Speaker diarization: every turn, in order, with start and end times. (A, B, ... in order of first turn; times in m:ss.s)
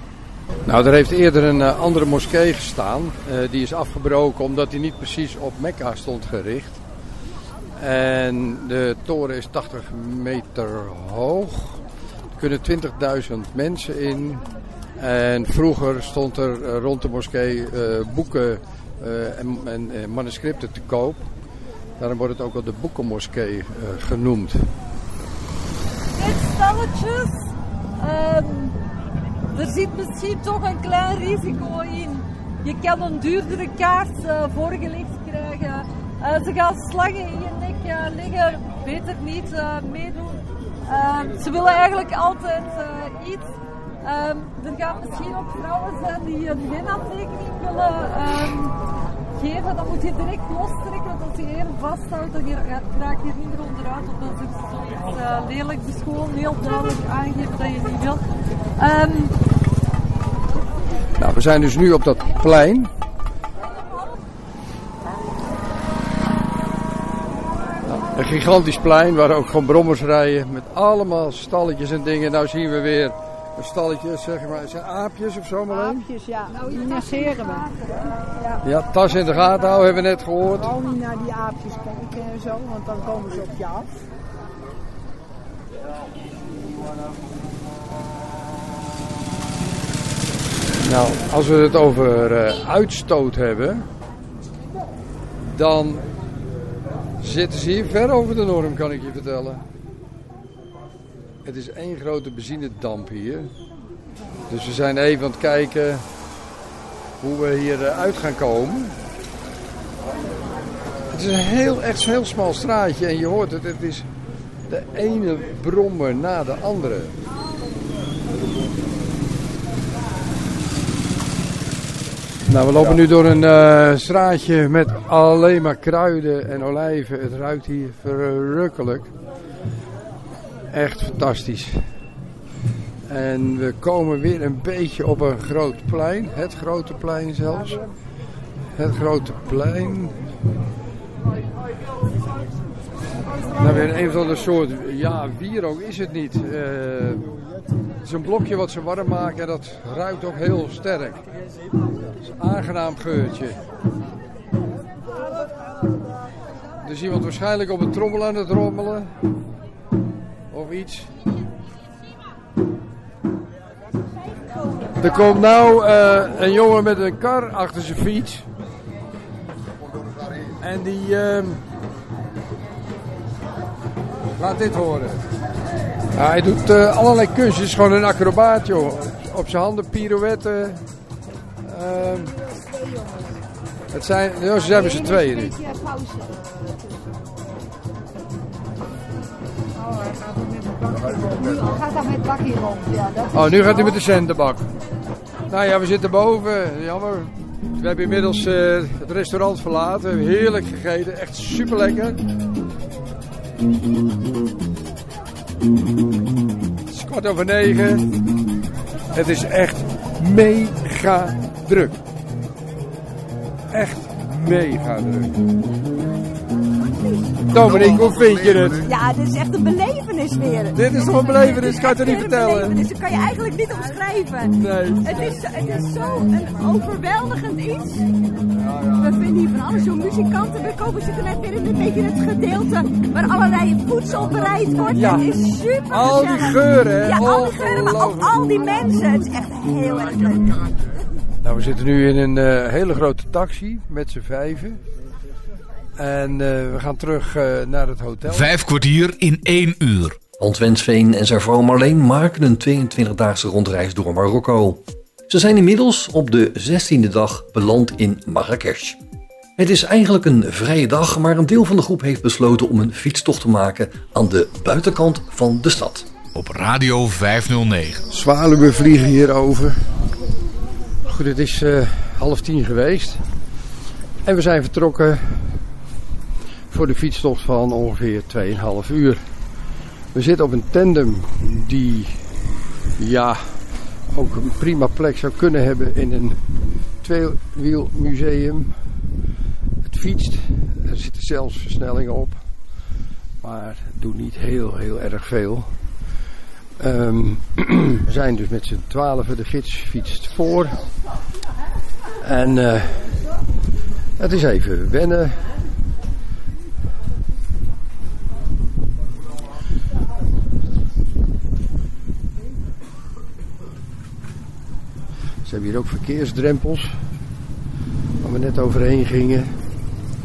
0:00.6-0:06.8 A
0:07.8-0:11.8 A
0:12.4-0:14.4 A
0:15.0-0:21.3 A
0:22.0-0:24.7 A
0:26.1-0:28.8 B
0:29.5-0:43.5 B
0:44.0-0:48.8 B
0:49.4-0:58.2 B
0:58.8-0:59.4 B
1:01.2-1:02.9 A
1:07.8-1:16.1 A
1:15.7-1:17.8 C
1:16.6-1:17.2 D
1:18.4-1:18.6 C
1:18.6-1:20.8 A
1:20.6-1:23.9 C
1:30.8-1:33.9 A
1:35.4-1:36.1 A
1:37.2-1:39.6 A
1:41.4-1:43.5 A
1:44.5-1:46.0 A
1:47.2-1:49.0 A
1:51.1-1:54.1 A
1:54.7-1:57.2 A
2:02.4-2:09.1 A
2:10.7-2:11.9 A
2:13.1-2:17.9 A
2:18.8-2:20.2 A
2:23.5-2:27.3 A
2:28.0-2:31.2 A
2:32.3-2:33.6 A
2:36.8-2:39.1 A
2:40.5-2:41.1 A
2:45.0-2:48.5 A
2:50.6-2:51.6 A
2:54.4-2:55.2 A
2:56.1-3:00.8 A
3:01.6-3:02.4 A
3:03.9-3:05.6 A
3:04.6-3:07.0 D
3:09.8-3:14.0 D
3:13.3-3:14.7 A
3:15.5-3:22.2 A
3:26.9-3:28.1 A
3:29.1-3:32.0 A
3:33.7-3:35.4 A
3:37.5-3:38.9 A
3:38.8-3:44.5 E
3:40.7-3:42.8 A
3:44.5-3:45.2 A
3:45.0-3:48.1 E
3:49.0-4:00.6 E
3:54.9-3:55.3 A
3:55.9-3:58.5 A
4:01.4-4:04.8 A
4:06.0-4:08.5 A
4:08.3-4:10.2 F
4:10.4-4:19.0 G
4:19.6-4:26.1 G
4:26.4-4:28.0 F
4:28.1-4:29.8 A
4:31.1-4:33.2 A
4:34.2-4:35.7 A
4:36.7-4:39.2 A
4:40.1-4:42.2 A
4:43.0-4:48.8 A
4:49.8-4:52.5 A
4:53.4-4:55.7 A
4:56.8-5:00.9 A
5:02.2-5:03.2 A
5:04.2-5:05.5 A
5:15.4-5:17.0 A
5:18.2-5:19.5 A